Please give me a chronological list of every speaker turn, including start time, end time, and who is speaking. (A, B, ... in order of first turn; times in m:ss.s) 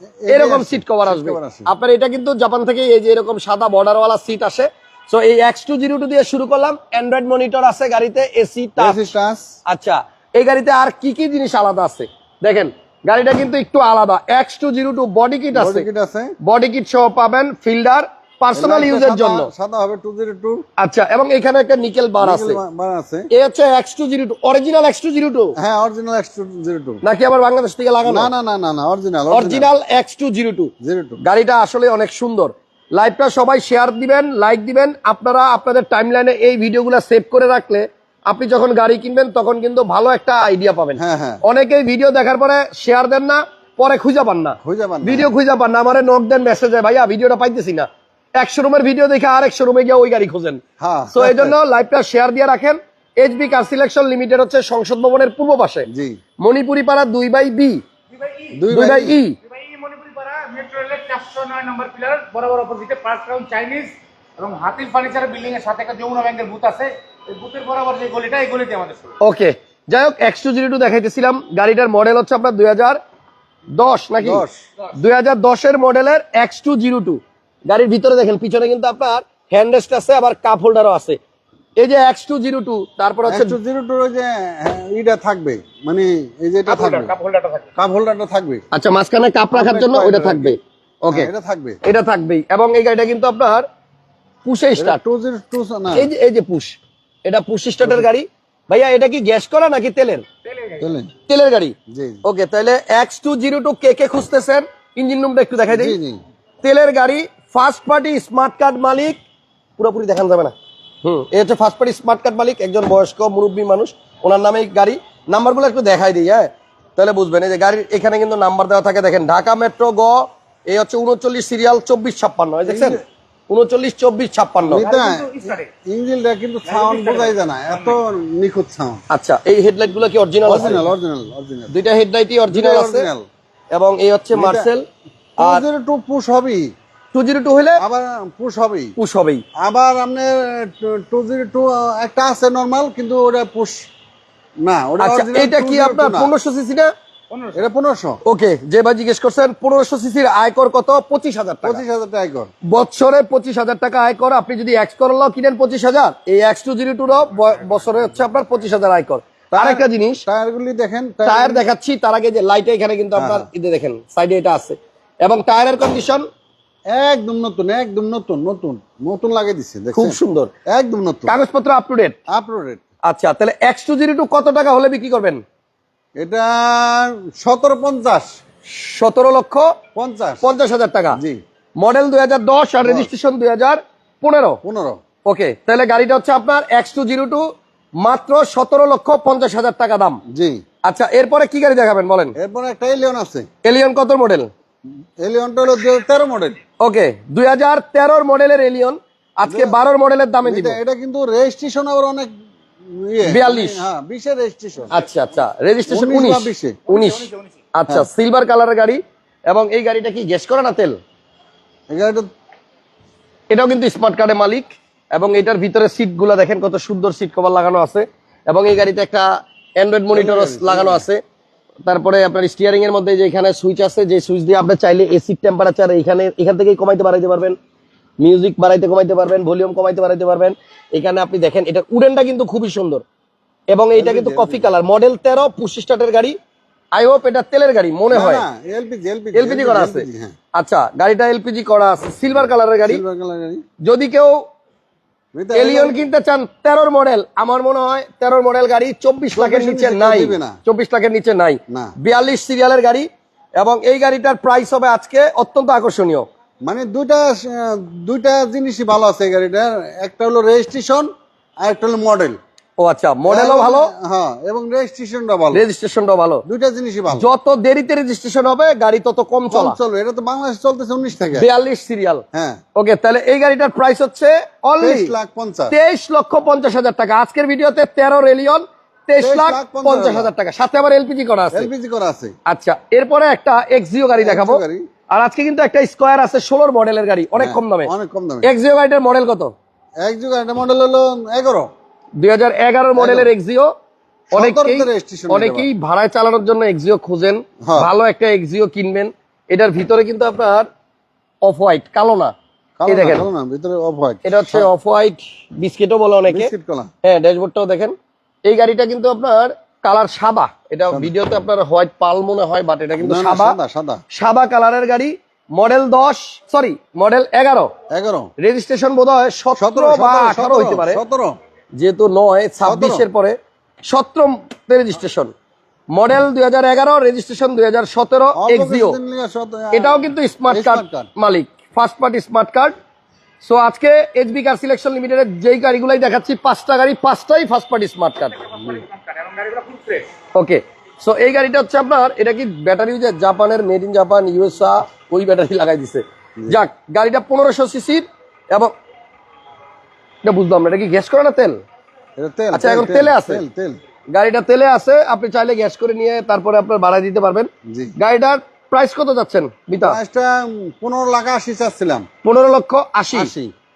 0:00.2-0:01.7 A
0:00.3-0:09.1 B
0:08.8-0:09.5 A
0:09.6-0:15.8 B
0:15.5-0:16.3 A
0:16.4-0:19.5 B
0:18.5-0:20.6 A
0:20.8-0:22.6 B
0:22.2-0:23.3 A
0:23.3-0:25.5 B
0:25.6-0:27.0 A
0:27.0-0:28.3 B
0:28.0-0:29.7 A
0:29.3-0:30.7 B
0:30.8-0:31.2 A
0:31.2-0:50.6 B
0:41.0-0:41.4 A
0:44.6-0:45.3 A
0:50.8-0:51.5 A
0:51.1-0:55.9 B
0:55.9-0:56.2 A
0:56.4-0:57.8 B
0:58.1-0:58.6 C
0:58.5-0:59.2 A
0:58.7-0:59.4 B
0:59.4-1:09.2 C
1:09.2-1:13.0 B
1:13.7-1:21.2 B
1:14.2-1:14.6 A
1:21.8-1:23.6 B
1:23.3-1:27.1 A
1:26.7-1:27.7 C
1:27.8-1:28.6 A
1:28.7-1:31.3 B
1:29.5-1:30.6 A
1:31.1-1:31.8 A
1:31.8-1:33.6 B
1:34.4-1:35.0 B
1:34.8-1:36.1 A
1:35.9-1:40.2 B
1:40.4-1:40.9 C
1:40.8-1:41.1 A
1:41.3-1:46.0 B
1:41.9-1:42.2 A
1:45.7-1:46.2 A
1:46.6-1:49.2 B
1:49.8-2:04.8 B
2:02.6-2:03.0 A
2:04.7-2:09.0 A
2:04.7-2:05.7 C
2:06.6-2:08.0 C
2:09.1-2:10.9 B
2:10.4-2:11.7 A
2:11.7-2:13.1 B
2:12.5-2:13.2 A
2:13.7-2:14.8 B
2:14.3-2:14.7 A
2:15.4-2:16.7 A
2:17.1-2:17.8 B
2:17.8-2:18.9 A
2:19.0-2:19.4 B
2:19.6-2:23.8 A
2:24.6-2:26.3 A
2:25.0-2:26.9 B
2:27.3-2:27.6 C
2:27.5-2:28.2 A
2:28.2-2:31.8 B
2:31.6-2:32.5 A
2:32.7-2:40.2 B
2:39.5-2:41.6 A
2:41.2-2:46.2 B
2:43.1-2:43.5 A
2:46.9-2:50.2 A
2:49.9-2:50.5 B
2:50.7-2:51.3 A
2:51.3-2:52.2 B
2:52.3-2:52.8 A
2:53.0-2:55.4 B
2:56.2-2:58.3 A
2:58.7-2:59.7 B
2:59.9-3:00.5 A
3:00.4-3:01.2 B
3:01.1-3:01.4 A
3:01.8-3:04.6 B
3:02.8-3:03.1 A
3:04.6-3:05.0 A
3:05.2-3:07.4 B
3:08.0-3:10.2 B
3:10.3-3:10.6 A
3:10.8-3:12.3 B
3:12.4-3:13.5 A
3:13.6-3:14.5 B
3:15.2-3:16.6 A
3:16.8-3:20.8 B
3:19.4-3:19.8 A
3:20.4-3:22.3 A
3:22.9-3:24.9 A
3:23.2-3:23.8 B
3:24.9-3:31.0 B
3:25.9-3:26.8 A
3:26.9-3:27.5 C
3:31.9-3:32.3 A
3:33.5-3:41.2 B
3:40.1-3:41.0 A
3:41.9-3:47.6 B
3:48.2-3:53.0 B
3:53.7-3:56.4 B
3:53.9-3:54.7 A
3:56.9-3:58.4 B
3:58.1-4:00.3 A
3:59.3-4:03.0 B
4:02.3-4:03.6 A
4:03.8-4:04.4 B
4:05.3-4:06.0 A
4:05.5-4:13.1 B
4:09.3-4:10.6 A
4:13.6-4:16.3 B
4:16.6-4:21.1 A
4:21.6-4:22.4 A
4:22.8-4:23.9 B
4:23.3-4:25.6 A
4:25.5-4:26.4 B
4:26.5-4:27.3 A
4:27.1-4:29.8 B
4:29.5-4:31.4 A
4:31.3-4:32.2 B
4:32.3-4:32.6 A
4:32.8-4:35.1 B
4:34.8-4:35.7 A
4:35.7-4:41.7 B
4:39.2-4:40.3 A
4:41.5-4:42.3 A
4:42.4-4:47.9 B
4:44.2-4:44.8 A
4:47.4-4:48.5 A
4:48.4-4:49.5 B
4:50.0-4:51.7 A
4:52.2-4:53.7 B
4:53.0-4:53.3 A
4:54.3-5:00.7 B
4:54.3-4:55.7 A
4:57.6-4:57.9 A
5:01.4-5:02.3 B
5:02.8-5:04.7 A
5:02.9-5:03.2 B
5:04.2-5:06.5 B
5:06.3-5:06.9 A
5:07.0-5:07.9 B
5:08.4-5:13.6 B
5:13.0-5:14.0 A
5:14.1-5:17.7 B
5:17.9-5:18.3 A
5:18.4-5:21.0 B
5:19.6-5:21.3 A
5:21.7-5:25.3 B
5:22.6-5:23.0 A
5:25.9-5:29.0 B
5:28.4-5:31.1 A
5:29.7-5:32.7 B
5:33.4-5:38.5 B
5:38.4-5:40.1 C
5:38.5-5:38.8 A
5:40.3-5:48.7 B
5:50.2-5:51.6 B
5:52.2-5:53.8 A
5:52.5-5:53.4 B
5:54.1-6:00.0 B
5:57.7-5:57.9 A
5:59.8-6:02.0 A
6:02.2-6:03.3 B
6:03.1-6:03.5 A